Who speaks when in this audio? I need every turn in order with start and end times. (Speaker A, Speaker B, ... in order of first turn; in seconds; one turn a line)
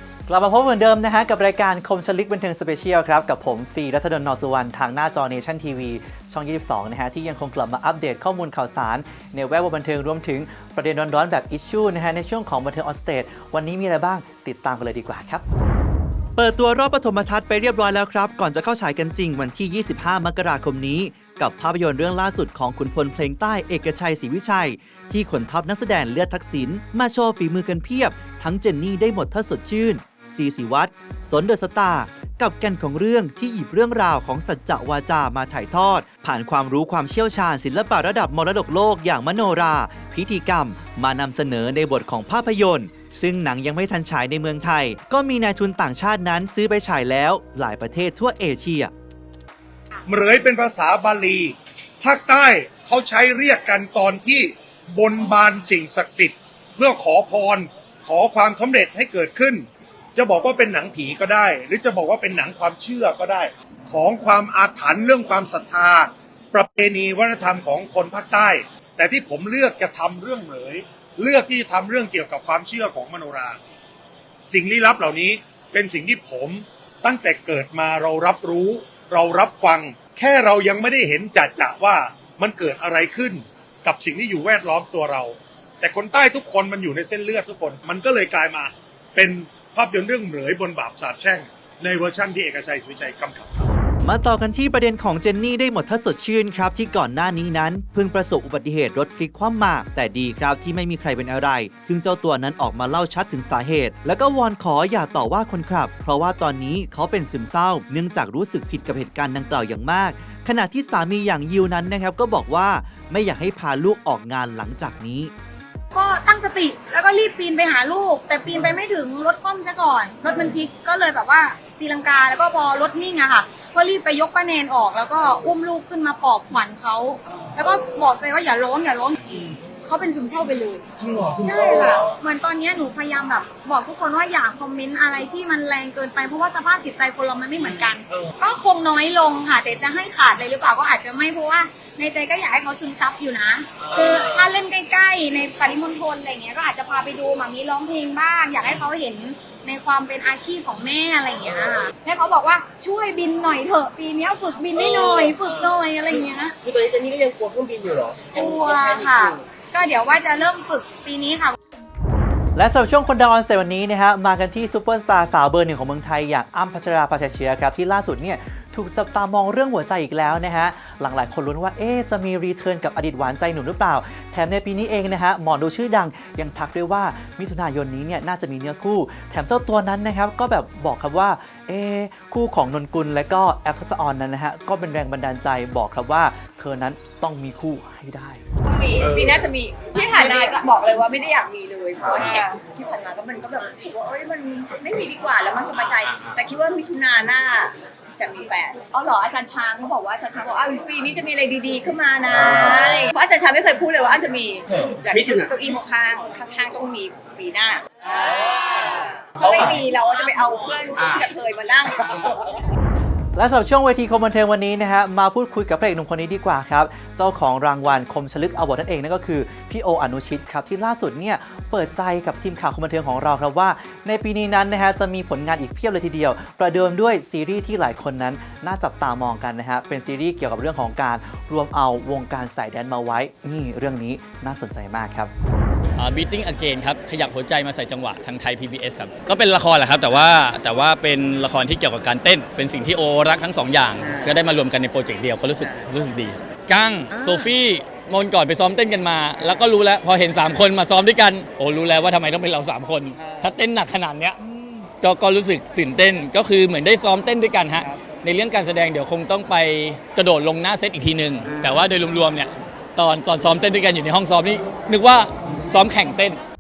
Speaker A: 0.3-15.4
Speaker A: 16.4-48.9
Speaker B: 50.0-59.6
Speaker B: 60.1-73.6
Speaker B: 74.5-93.7
Speaker A: 94.0-115.3
Speaker C: 115.9-130.8
Speaker C: 131.4-156.5
Speaker D: 156.6-159.4
Speaker C: 158.3-161.6
Speaker A: 162.5-188.4
Speaker E: 188.7-212.5
Speaker D: 205.1-205.5
Speaker A: 213.3-235.3
Speaker F: 236.0-254.4
Speaker D: 244.0-244.4
Speaker D: 247.1-247.4
Speaker D: 253.2-253.5
Speaker F: 255.0-266.4